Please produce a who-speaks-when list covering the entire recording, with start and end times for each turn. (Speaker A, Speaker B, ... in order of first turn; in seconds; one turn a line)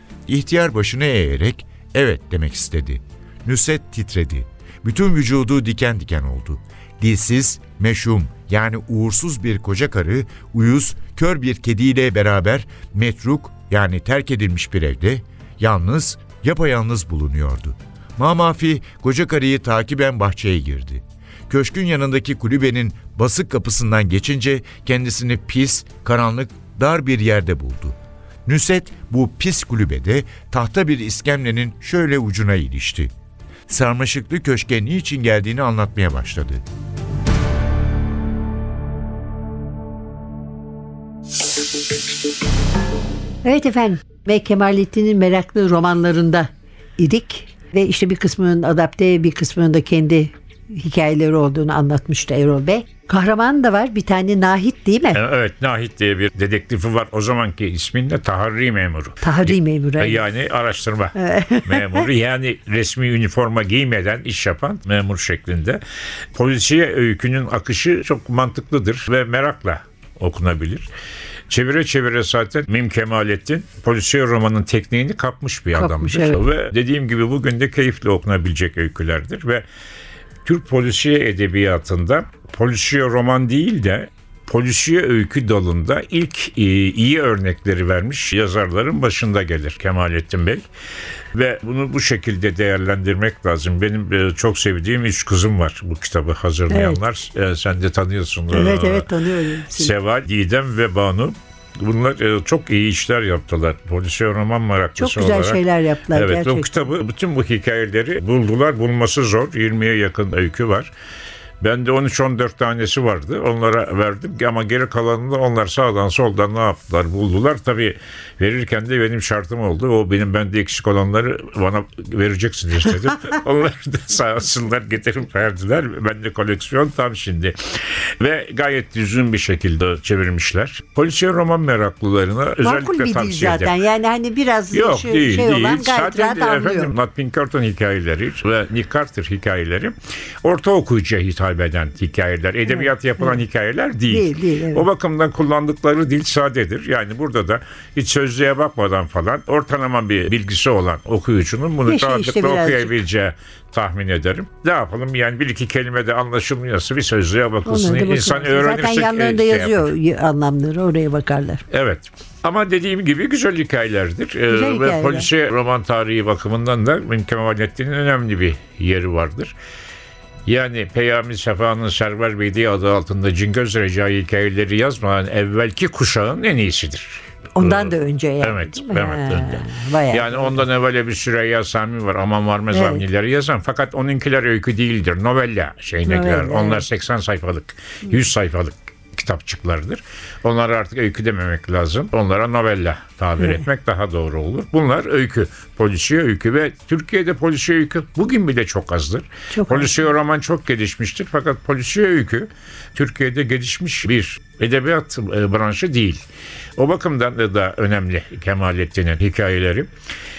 Speaker A: 0.3-33.1
Speaker A: 33.7-36.6
Speaker B: 43.4-55.2
Speaker C: 55.1-65.8
Speaker B: 59.2-60.2
Speaker B: 61.1-62.0
Speaker C: 66.3-70.9
Speaker C: 71.5-79.6
Speaker B: 75.8-76.4
Speaker C: 80.4-90.6
Speaker C: 91.3-99.1
Speaker B: 96.7-97.0
Speaker B: 98.5-99.9
Speaker C: 99.7-105.6
Speaker B: 105.0-106.7
Speaker C: 106.1-110.9
Speaker C: 111.6-133.7
Speaker B: 132.6-136.9
Speaker C: 134.7-159.9
Speaker B: 142.7-143.4
Speaker B: 144.1-144.8
Speaker B: 151.9-152.9
Speaker B: 157.7-161.6
Speaker C: 161.7-169.5
Speaker B: 164.5-165.3
Speaker C: 170.4-206.2
Speaker B: 177.6-180.6
Speaker B: 182.7-183.0
Speaker B: 186.1-186.8
Speaker B: 199.5-199.9
Speaker C: 206.8-209.9